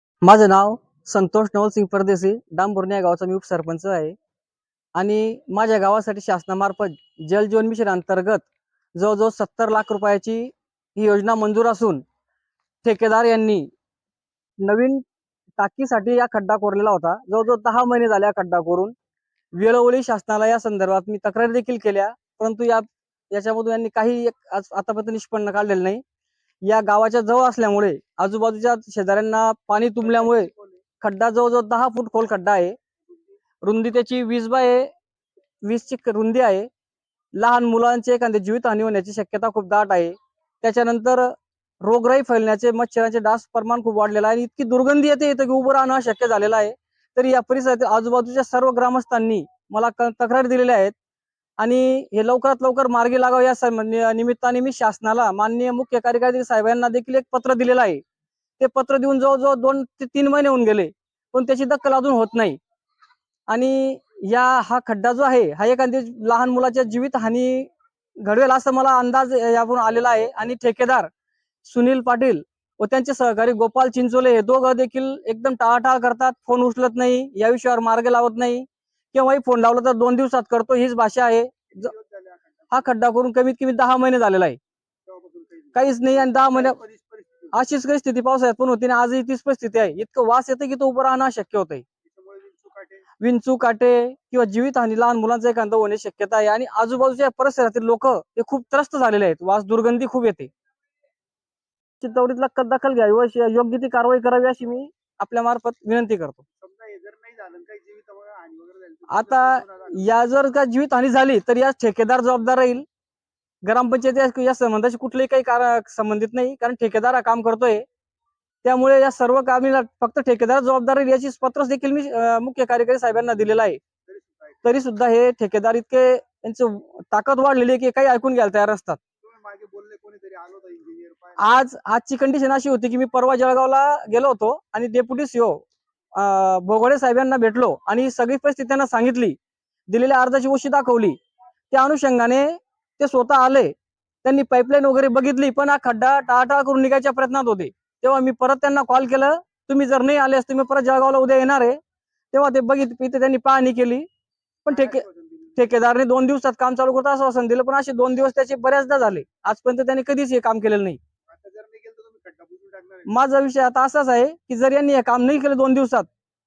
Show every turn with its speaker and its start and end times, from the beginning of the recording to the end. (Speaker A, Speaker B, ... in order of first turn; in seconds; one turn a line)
Speaker A: 0.2-4.2
Speaker A: 5.0-12.0
Speaker A: 12.8-13.7
Speaker A: 14.6-15.1
Speaker A: 15.6-18.9
Speaker A: 19.6-26.0
Speaker A: 26.6-32.8
Speaker B: 30.0-30.8
Speaker A: 33.6-34.9
Speaker A: 35.6-36.7
Speaker A: 37.4-51.0
Speaker A: 51.6-58.0
Speaker A: 58.6-62.6
Speaker A: 63.5-67.7
Speaker A: 68.2-71.1
Speaker A: 71.6-81.9
Speaker B: 81.7-82.8
Speaker A: 82.7-84.6
Speaker B: 85.1-87.5
Speaker A: 85.8-86.8
Speaker A: 87.5-91.8
Speaker B: 92.0-93.0
Speaker A: 93.2-100.5
Speaker A: 102.0-106.4
Speaker B: 106.6-110.0
Speaker A: 109.1-112.8
Speaker A: 113.6-117.8
Speaker A: 118.6-123.8
Speaker B: 124.1-124.6
Speaker A: 124.6-129.0
Speaker B: 129.2-131.4
Speaker A: 131.4-139.4
Speaker A: 139.9-141.2
Speaker A: 141.7-151.8
Speaker A: 152.3-154.1
Speaker A: 154.7-155.0
Speaker B: 154.7-155.6
Speaker A: 155.6-161.0
Speaker B: 161.3-163.1
Speaker A: 163.1-166.1